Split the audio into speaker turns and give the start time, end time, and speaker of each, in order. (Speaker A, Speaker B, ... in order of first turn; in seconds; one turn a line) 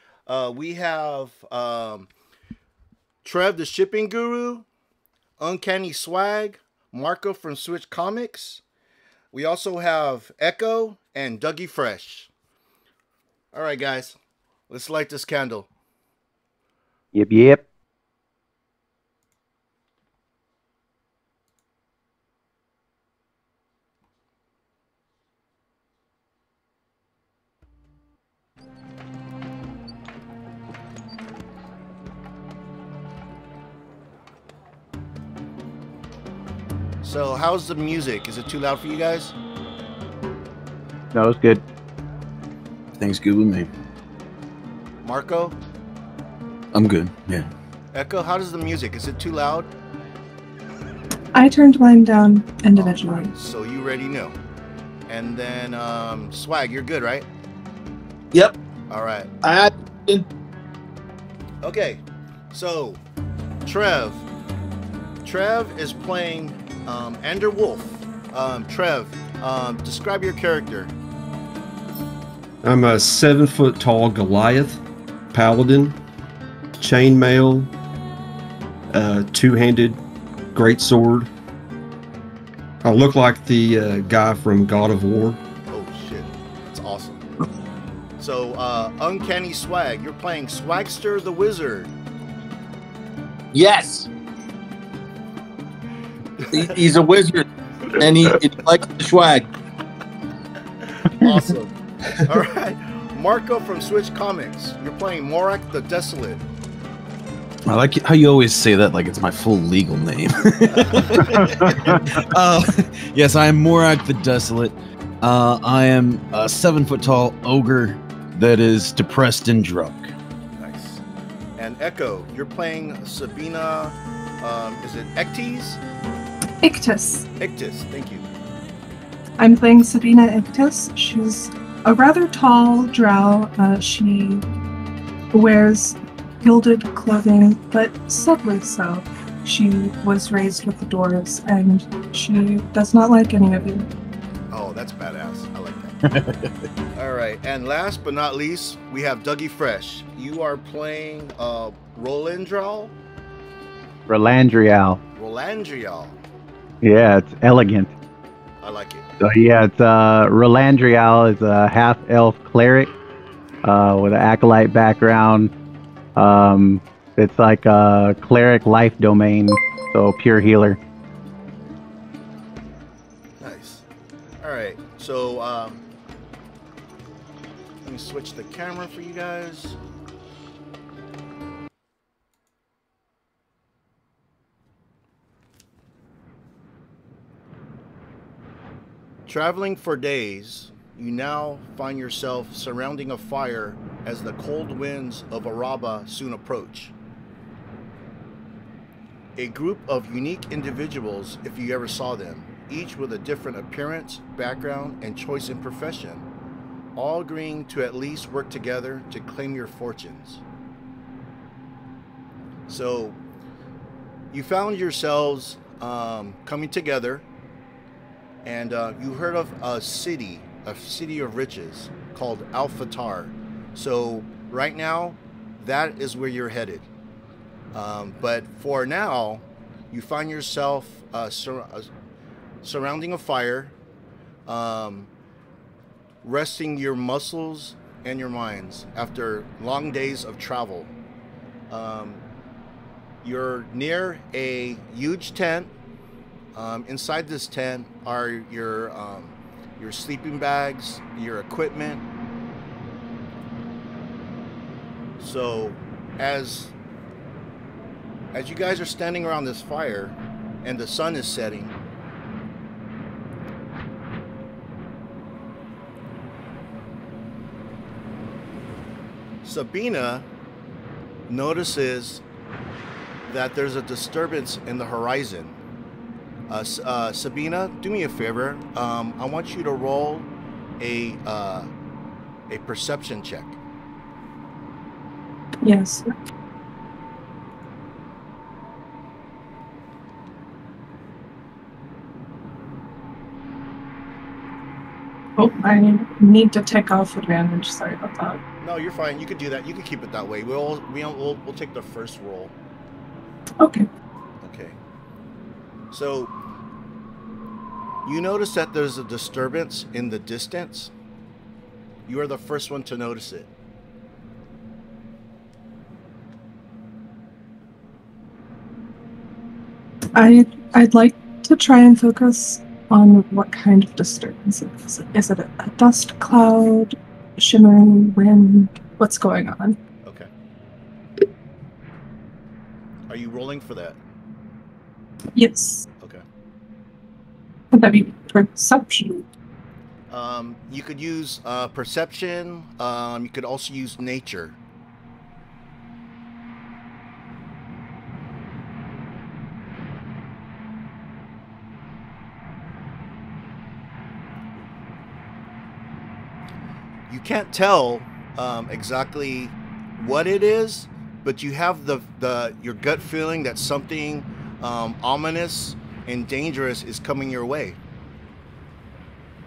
Speaker A: 0.3-2.1
Speaker A: 3.2-4.7
Speaker A: 5.4-8.6
Speaker A: 9.3-12.3
Speaker A: 13.5-14.2
Speaker A: 14.7-15.7
Speaker B: 17.1-17.6
Speaker A: 37.0-39.4
Speaker B: 41.1-41.6
Speaker C: 43.0-43.7
Speaker A: 45.0-45.5
Speaker C: 46.7-47.5
Speaker A: 47.9-49.7
Speaker D: 51.3-53.3
Speaker A: 52.8-54.4
Speaker A: 55.1-57.3
Speaker A: 58.9-59.3
Speaker E: 59.4-60.3
Speaker A: 61.6-63.0
Speaker A: 63.6-64.2
Speaker A: 65.2-70.9
Speaker F: 72.6-76.0
Speaker F: 76.8-77.7
Speaker F: 78.9-80.0
Speaker F: 80.5-81.3
Speaker F: 82.8-85.4
Speaker A: 85.7-87.3
Speaker A: 88.2-91.9
Speaker E: 93.5-94.1
Speaker A: 96.4-96.8
Speaker E: 96.5-99.5
Speaker A: 101.0-106.4
Speaker C: 107.7-120.1
Speaker A: 110.7-111.8
Speaker A: 120.6-121.0
Speaker A: 121.6-125.8
Speaker D: 126.6-127.3
Speaker A: 127.4-128.2
Speaker D: 129.4-134.5
Speaker D: 135.3-143.9
Speaker A: 144.5-146.0
Speaker C: 146.1-146.5
Speaker A: 146.9-152.9
Speaker B: 154.1-155.0
Speaker A: 155.2-156.2
Speaker B: 156.8-157.9
Speaker A: 158.6-159.1
Speaker B: 159.2-162.9
Speaker B: 163.6-165.5
Speaker B: 166.2-170.8
Speaker A: 173.4-173.8
Speaker A: 174.4-175.8
Speaker A: 177.8-179.8
Speaker A: 189.3-196.9
Speaker A: 199.4-206.3
Speaker A: 207.0-210.4
Speaker A: 212.7-213.2
Speaker A: 214.3-217.2
Speaker A: 218.4-226.9
Speaker A: 227.7-231.9
Speaker A: 232.6-233.8
Speaker A: 234.5-235.1
Speaker A: 236.2-240.9
Speaker A: 241.7-242.2
Speaker A: 243.2-245.7
Speaker A: 246.6-252.0
Speaker A: 255.2-256.7
Speaker A: 258.3-261.7
Speaker A: 269.4-270.3
Speaker A: 271.3-272.2
Speaker A: 273.3-275.6
Speaker A: 276.5-280.3
Speaker A: 280.8-281.7
Speaker A: 282.5-283.6
Speaker D: 285.6-286.1
Speaker D: 295.4-298.4
Speaker A: 298.6-302.5
Speaker D: 303.6-303.9
Speaker A: 304.4-304.8
Speaker A: 305.9-306.3
Speaker A: 308.1-310.9
Speaker A: 312.1-313.5
Speaker D: 320.1-329.8
Speaker A: 330.1-330.3
Speaker A: 333.1-334.0
Speaker D: 335.4-335.9
Speaker D: 337.7-339.2
Speaker A: 340.1-344.6
Speaker A: 357.1-367.8